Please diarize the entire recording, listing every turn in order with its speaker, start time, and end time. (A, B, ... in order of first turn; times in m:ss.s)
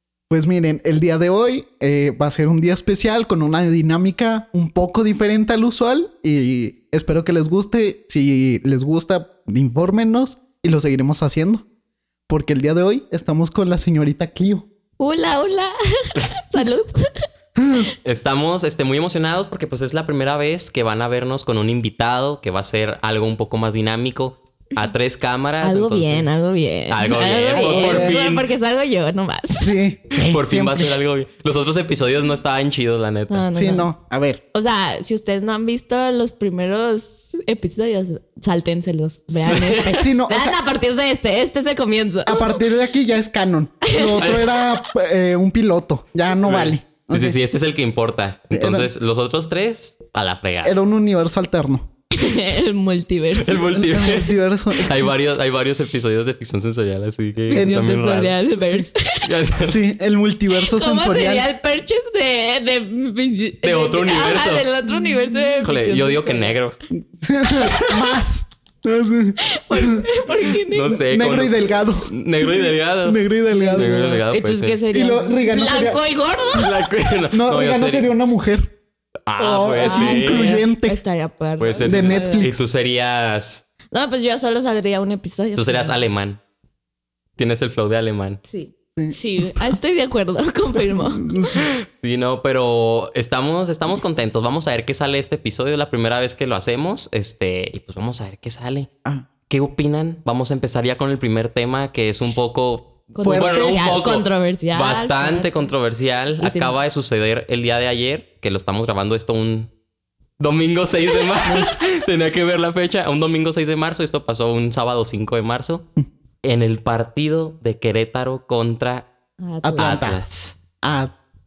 0:00.3-0:11.7 A
0:12.3-0:14.7 A
0:15.0-0:17.2 B
0:17.6-0:17.9 A
0:18.0-0:26.3 C
0:25.6-0:29.8 B
0:26.9-0:28.5 C
0:27.6-0:28.2 A
0:29.6-0:30.9 A
0:30.1-0:33.4 C
0:33.3-0:33.9 B
0:33.5-0:34.4 A
0:34.5-0:42.6 B
0:39.3-0:40.0 C
0:39.9-0:40.6 A
0:42.3-0:47.4 A
0:43.8-0:44.8 B
0:44.2-0:44.4 C
0:46.4-0:50.8 C
0:48.5-0:48.9 A
0:50.6-0:51.9 A
0:52.1-0:53.8 B
0:53.4-0:58.4 C
0:53.8-0:55.1 A
0:57.5-0:59.3 B
0:57.5-0:57.9 A
0:58.6-0:58.9 A
0:59.2-0:59.8 C
0:59.6-1:01.5 A
1:00.6-1:06.6 B
1:03.6-1:04.7 C
1:05.6-1:06.8 C
1:07.0-1:10.1 A
1:07.5-1:08.0 C
1:09.5-1:11.0 B
1:10.7-1:13.2 C
1:10.9-1:14.2 A
1:13.5-1:16.9 B
1:13.8-1:14.8 C
1:14.9-1:16.0 A
1:16.5-1:18.1 C
1:17.3-1:18.7 A
1:19.3-1:20.6 C
1:19.4-1:21.0 A
1:19.7-1:22.5 B
1:21.6-1:23.6 C
1:21.8-1:22.6 A
1:23.9-1:26.0 B
1:25.6-1:26.4 C
1:27.4-1:28.4 C
1:28.5-1:31.6 B
1:29.0-1:29.7 A
1:30.9-1:31.6 A
1:31.5-1:38.9 C
1:39.5-1:49.7 C
1:43.2-1:45.6 B
1:43.2-1:43.8 A
1:46.4-1:46.8 B
1:50.4-1:55.9 C
1:56.4-1:59.1 C
1:59.4-2:00.3 B
1:59.6-2:00.2 A
1:59.8-2:00.5 C
2:00.8-2:01.1 A